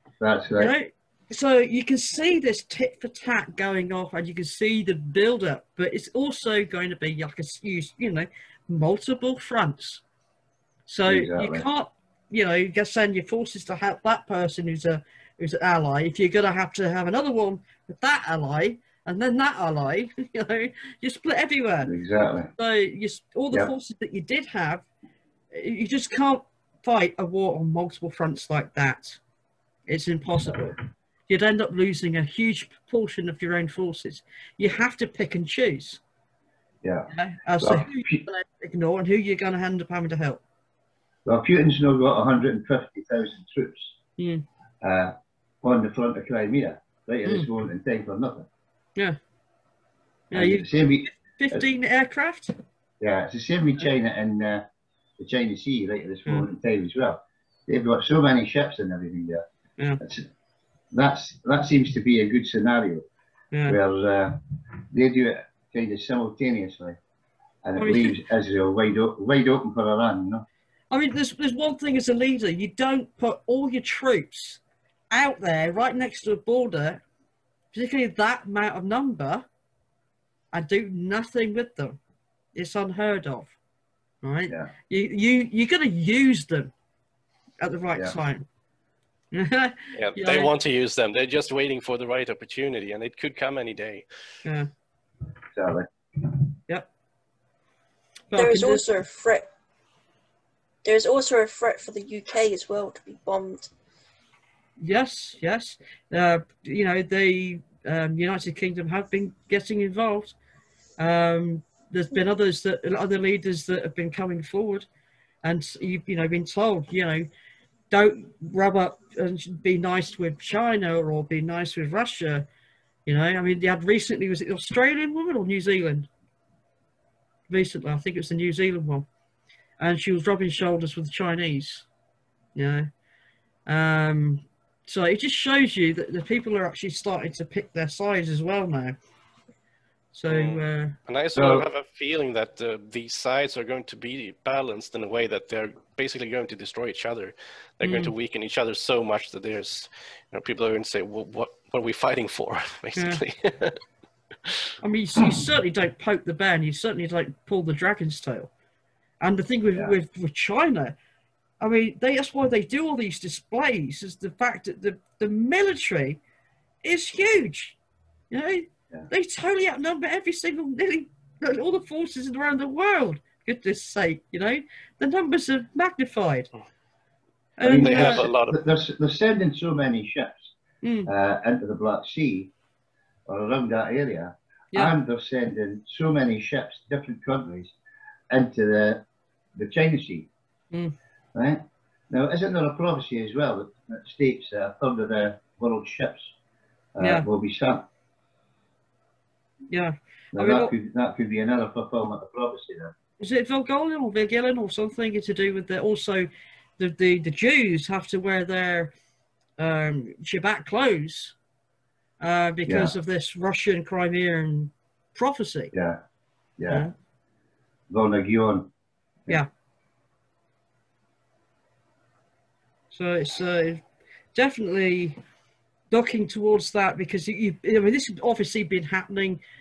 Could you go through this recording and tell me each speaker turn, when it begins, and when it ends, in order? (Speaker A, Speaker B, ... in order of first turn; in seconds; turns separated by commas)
Speaker A: 0.2-0.7, Speaker B: 0.5-10.0, Speaker B: 10.9-21.9, Speaker A: 11.1-11.7, Speaker A: 21.9-22.5, Speaker B: 22.6-24.9, Speaker B: 25.5-29.2, Speaker B: 29.9-30.7, Speaker B: 31.3-36.0, Speaker A: 36.8-38.2, Speaker B: 37.1-40.4, Speaker A: 41.2-43.9, Speaker B: 44.2-44.4, Speaker A: 44.8-48.5, Speaker B: 50.3-52.5, Speaker A: 50.3-51.6, Speaker A: 53.0-54.7, Speaker A: 55.2-59.4, Speaker A: 60.0-60.3, Speaker A: 60.9-63.0, Speaker B: 63.5-63.8, Speaker A: 63.6-67.0, Speaker A: 67.6-70.4, Speaker B: 67.8-68.2, Speaker B: 70.9-77.0, Speaker B: 77.7-79.5, Speaker B: 80.5-82.0, Speaker B: 82.5-83.5, Speaker B: 84.2-86.7, Speaker B: 87.6-88.5, Speaker B: 89.3-90.5, Speaker C: 90.0-94.0, Speaker A: 95.5-96.4, Speaker B: 98.3-98.8, Speaker D: 98.3-99.5, Speaker D: 100.8-103.7, Speaker B: 104.8-110.3, Speaker B: 111.0-114.9, Speaker B: 115.4-117.3, Speaker B: 117.9-122.5, Speaker B: 123.0-126.1, Speaker B: 127.5-129.1, Speaker B: 129.8-131.9, Speaker B: 132.5-132.9, Speaker B: 133.7-138.9, Speaker B: 140.1-141.0, Speaker C: 140.3-153.8, Speaker A: 141.3-141.7, Speaker B: 147.8-148.1, Speaker B: 152.9-153.2, Speaker B: 154.8-158.5, Speaker B: 159.2-160.9, Speaker B: 161.6-166.2, Speaker B: 166.8-167.8, Speaker B: 168.3-176.5, Speaker B: 177.6-178.2, Speaker A: 177.6-180.5, Speaker C: 177.8-178.6, Speaker B: 180.8-181.1, Speaker A: 181.1-182.5, Speaker A: 183.3-187.7, Speaker A: 188.3-189.0, Speaker A: 189.6-190.3, Speaker A: 191.3-196.3, Speaker A: 196.9-197.9, Speaker B: 197.0-197.2, Speaker B: 199.7-200.7, Speaker A: 200.3-202.9, Speaker B: 203.2-208.9, Speaker B: 209.6-211.3, Speaker B: 212.2-215.7, Speaker A: 212.7-212.9, Speaker A: 215.7-216.0, Speaker A: 216.6-216.9, Speaker A: 217.9-218.7, Speaker B: 222.9-223.8, Speaker B: 224.3-225.2, Speaker B: 225.9-229.4